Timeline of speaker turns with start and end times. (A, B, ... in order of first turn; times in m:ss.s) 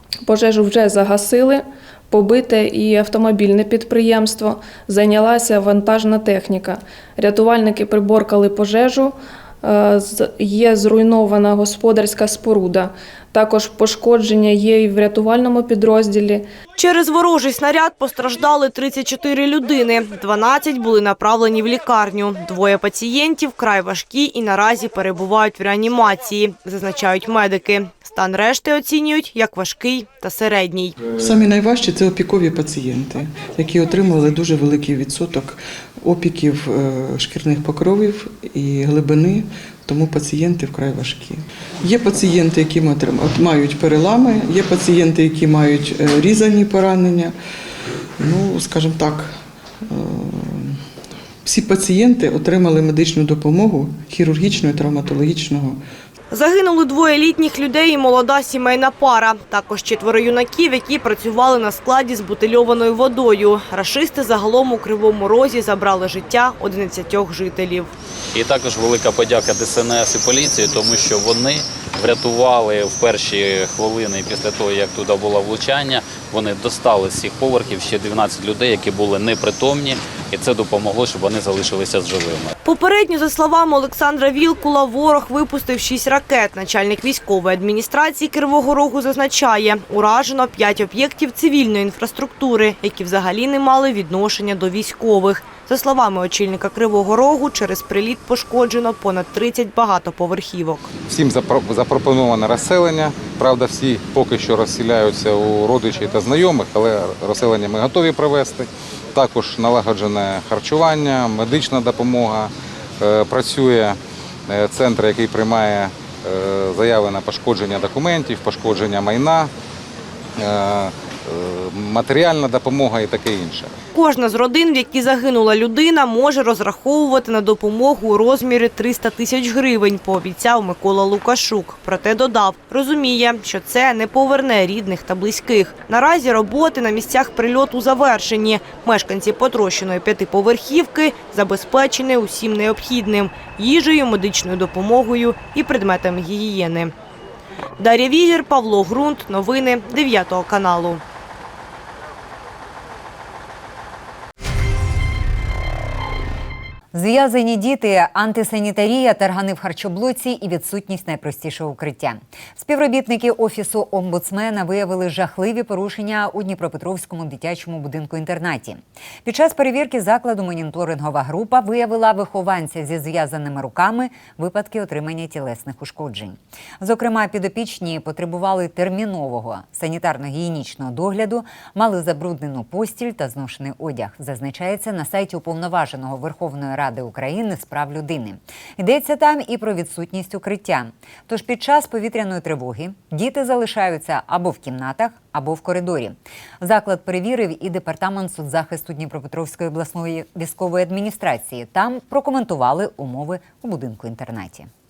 0:00.2-0:16.5 A
0:16.8-0:31.0 B
0:31.1-0:47.3 C
0:48.2-0:50.8 C
0:51.4-0:55.8 C
0:56.3-1:07.9 B
1:08.4-1:22.4 D
1:22.6-1:40.9 B
1:41.1-1:59.5 E
2:00.4-2:03.8 E
2:03.9-2:26.9 B
2:27.8-2:31.0 B
2:36.9-3:24.7 F